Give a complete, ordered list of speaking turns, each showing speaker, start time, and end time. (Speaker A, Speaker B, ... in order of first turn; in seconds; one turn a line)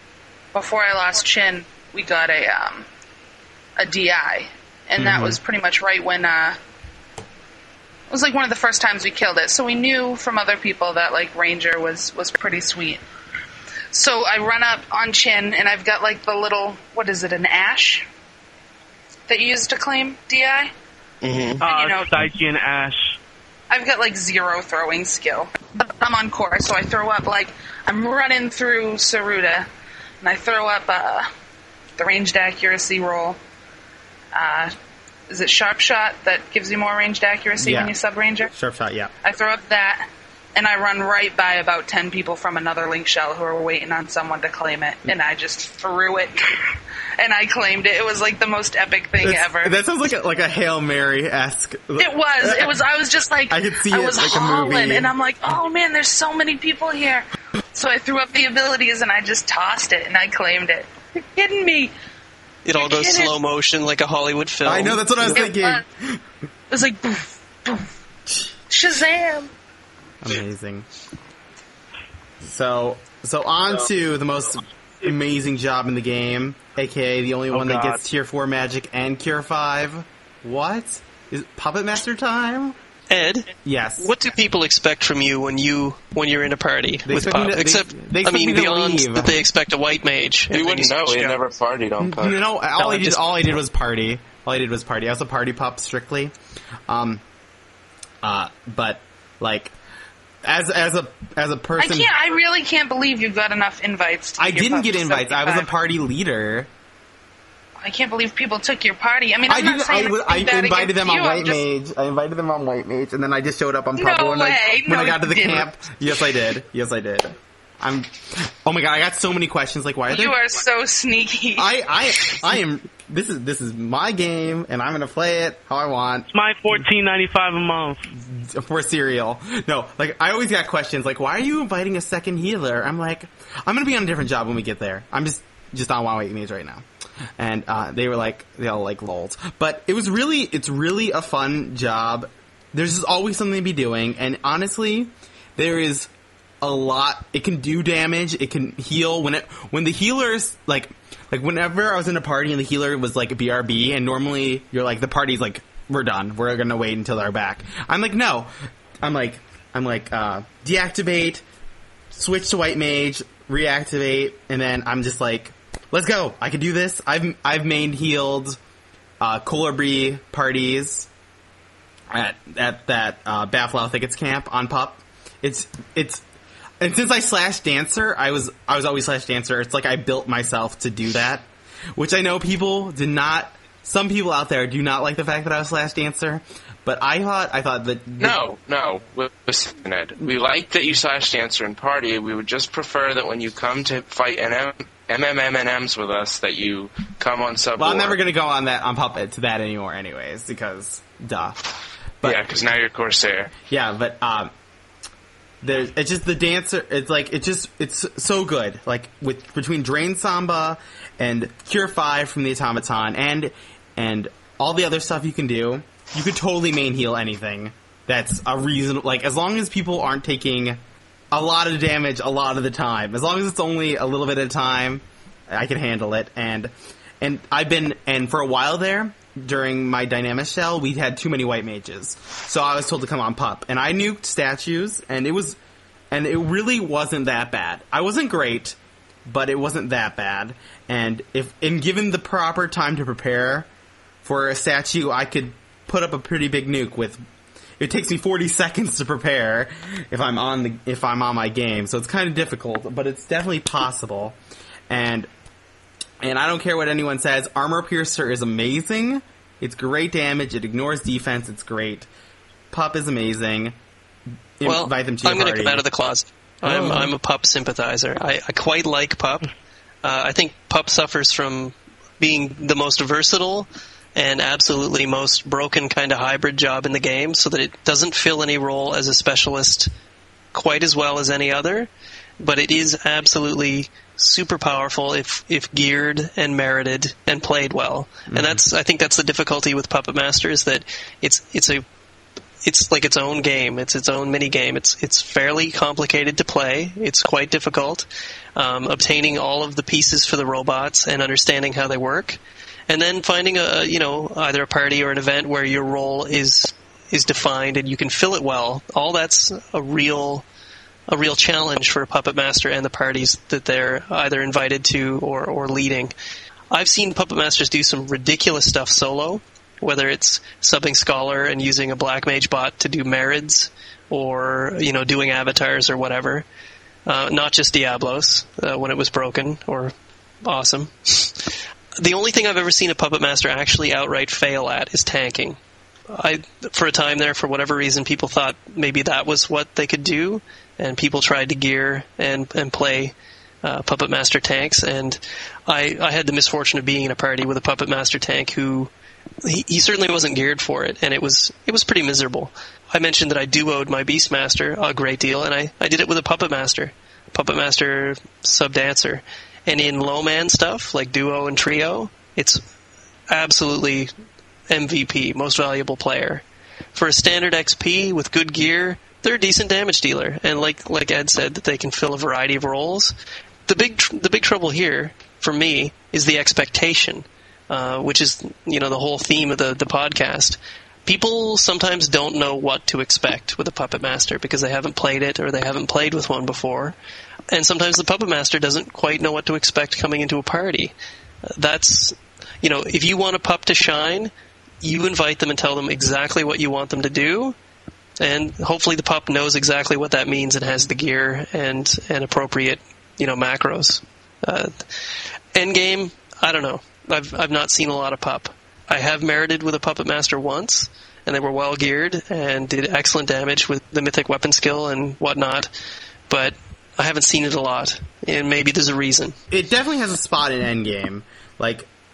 Speaker A: 0.5-2.9
Speaker A: 3.8-6.6
Speaker B: 5.0-5.4
Speaker A: 8.1-13.0
Speaker A: 13.9-18.1
Speaker A: 19.3-20.7
Speaker C: 21.2-21.6
Speaker D: 21.6-23.2
Speaker A: 21.6-22.2
Speaker A: 23.7-29.7
Speaker A: 30.2-31.3
Speaker A: 32.0-33.4
Speaker A: 34.3-34.7
Speaker A: 35.3-38.5
Speaker B: 37.6-37.9
Speaker B: 38.5-39.1
Speaker A: 39.2-49.8
Speaker B: 49.2-52.8
Speaker A: 52.0-61.9
Speaker B: 53.5-55.1
Speaker E: 62.6-65.0
Speaker A: 62.7-63.3
Speaker B: 64.6-66.2
Speaker A: 65.3-65.8
Speaker A: 66.7-67.9
Speaker A: 68.7-69.5
Speaker B: 70.2-70.8
Speaker B: 72.4-82.8
Speaker D: 77.5-78.0
Speaker E: 83.1-91.4
Speaker B: 83.6-84.1
Speaker B: 87.0-89.4
Speaker C: 90.5-92.4
Speaker B: 92.0-96.3
Speaker E: 92.8-93.5
Speaker B: 96.9-97.2
Speaker B: 98.2-99.7
Speaker B: 100.4-102.1
Speaker A: 101.8-105.7
Speaker B: 104.4-106.7
Speaker A: 107.8-111.6
Speaker B: 109.5-120.4
Speaker A: 114.0-115.7
Speaker A: 120.1-121.7
Speaker B: 121.5-126.3
Speaker D: 126.3-128.1
Speaker B: 128.2-136.8
Speaker B: 137.4-146.1
Speaker B: 146.6-161.4
Speaker B: 162.1-168.6
Speaker B: 169.2-171.1
Speaker B: 172.1-176.2
Speaker B: 176.8-188.4
Speaker C: 188.2-198.2
Speaker B: 197.8-201.6
Speaker C: 202.2-203.5
Speaker B: 203.7-204.5
Speaker B: 205.6-220.8
Speaker B: 221.3-235.6
Speaker B: 236.1-243.7
Speaker B: 244.2-247.2
Speaker B: 247.8-254.3
Speaker B: 254.9-255.3
Speaker B: 256.2-262.1
Speaker B: 262.7-263.7
Speaker B: 264.6-265.8
Speaker E: 264.6-269.5
Speaker B: 266.7-267.0
Speaker E: 270.0-279.9
Speaker E: 280.5-281.9
Speaker E: 282.4-291.8
Speaker B: 288.3-288.6
Speaker E: 292.6-310.4
Speaker E: 311.1-316.1
Speaker E: 316.7-326.4
Speaker E: 327.1-329.9
Speaker E: 330.4-335.6
Speaker E: 336.1-348.9
Speaker E: 349.4-362.6
Speaker E: 363.3-364.1
Speaker E: 364.7-373.1
Speaker E: 373.7-386.9
Speaker E: 387.5-390.9
Speaker E: 391.5-394.3
Speaker E: 394.8-397.6
Speaker E: 398.2-404.9
Speaker E: 405.5-415.7
Speaker E: 416.3-419.4
Speaker B: 419.5-421.9